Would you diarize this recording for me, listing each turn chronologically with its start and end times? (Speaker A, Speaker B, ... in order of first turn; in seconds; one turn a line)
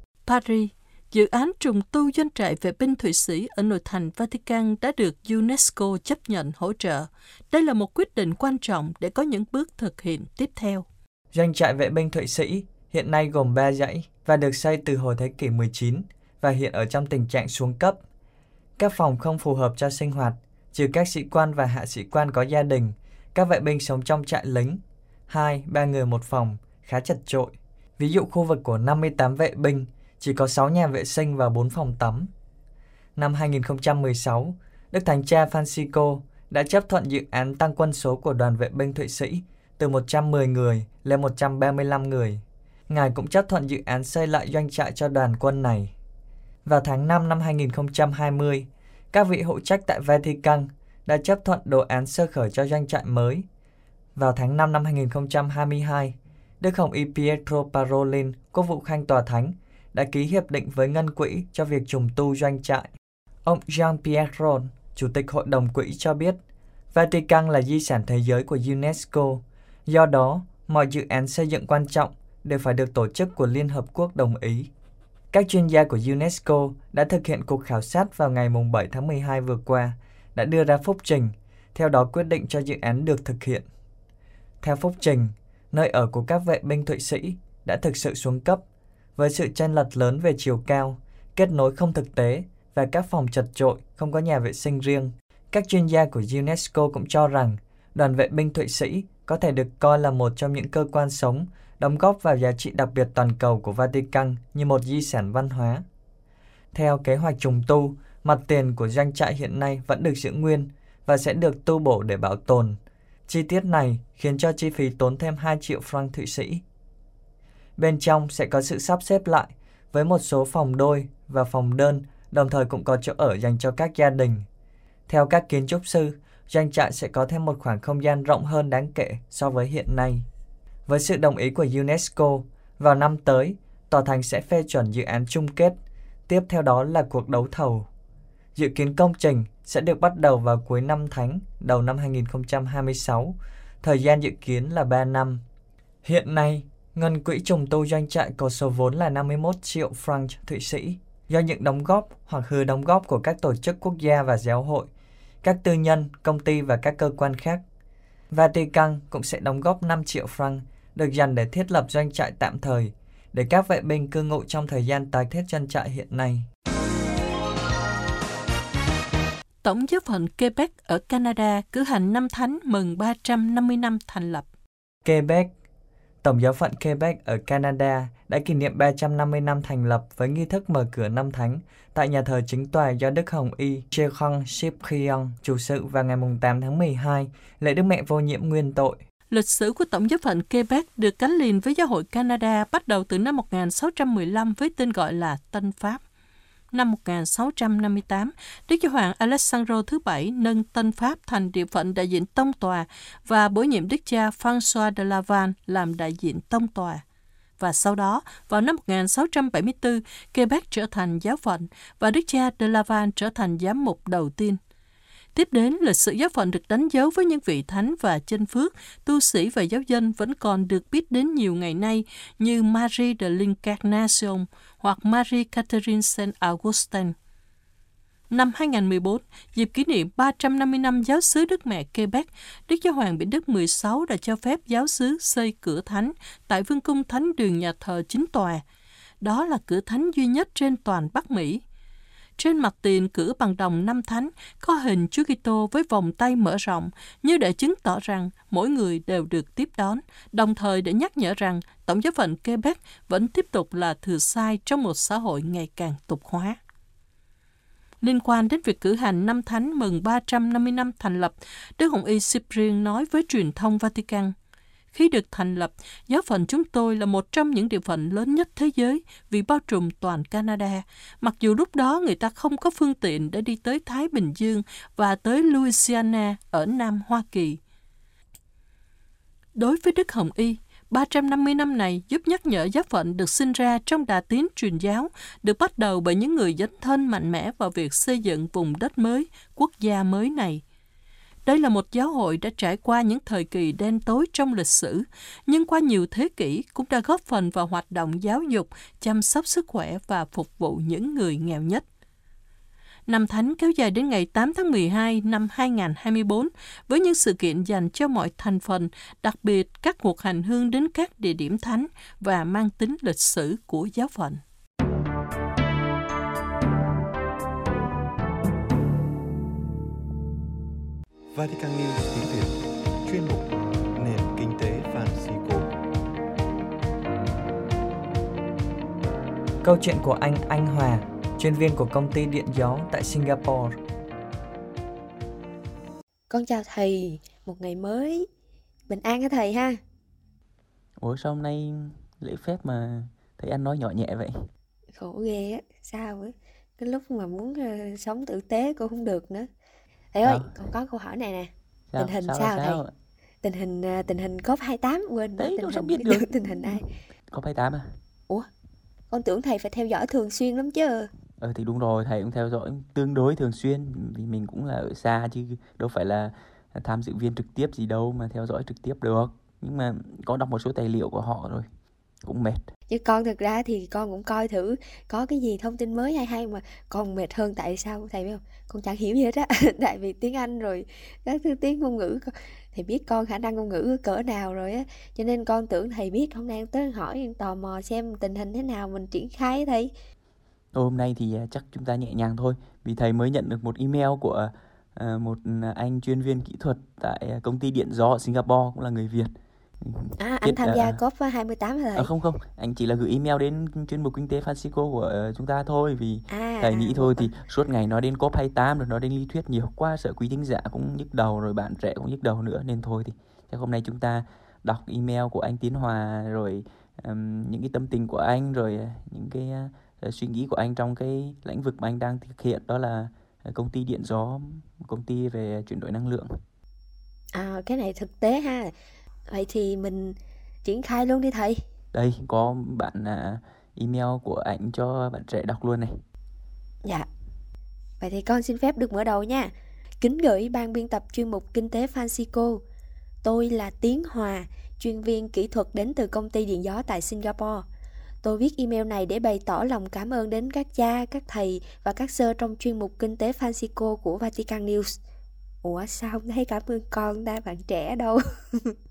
Speaker A: 0.3-10.9
Speaker B: 11.3-18.0
Speaker B: 18.8-32.3
Speaker B: 33.2-45.9
Speaker B: 46.6-53.5
Speaker B: 54.1-62.9
Speaker B: 63.4-66.4
Speaker B: 66.9-74.7
Speaker B: 75.3-83.7
Speaker B: 84.6-88.6
Speaker B: 89.2-105.8
Speaker B: 106.7-116.6
Speaker B: 117.8-124.5
Speaker B: 125.1-130.3
Speaker B: 130.9-137.9
Speaker B: 138.6-145.4
Speaker B: 146.0-154.9
Speaker B: 155.4-157.6
Speaker B: 158.3-166.5
Speaker A: 169.6-174.5
Speaker B: 175.1-175.5
Speaker B: 176.2-189.0
Speaker A: 189.3-196.0
Speaker A: 196.7-207.0
Speaker A: 207.6-214.6
Speaker A: 215.3-227.2
Speaker A: 228.3-238.6
Speaker A: 239.2-241.6
Speaker A: 242.4-256.6
Speaker A: 258.0-264.4
Speaker A: 264.9-277.6
Speaker A: 279.6-290.6
Speaker A: 291.5-301.9
Speaker A: 303.1-314.4
Speaker C: 321.3-325.7
Speaker B: 329.6-333.8
Speaker D: 336.3-338.3
Speaker D: 338.9-339.8
Speaker E: 341.0-344.5
Speaker D: 345.0-349.5
Speaker D: 350.1-352.8
Speaker E: 350.2-350.5
Speaker E: 351.9-352.9
Speaker D: 353.4-356.8
Speaker E: 355.4-356.8
Speaker E: 357.3-358.0
Speaker D: 359.1-361.1
Speaker E: 361.4-371.7
Speaker E: 372.2-372.6
Speaker D: 372.9-389.9
Speaker E: 390.7-401.0
Speaker D: 400.2-402.1
Speaker E: 402.0-426.4
Speaker D: 406.3-407.3
Speaker D: 427.3-428.7
Speaker D: 429.3-431.6
Speaker E: 431.9-436.0
Speaker D: 438.0-442.6
Speaker D: 443.2-447.6
Speaker D: 448.2-455.0
Speaker D: 455.6-458.8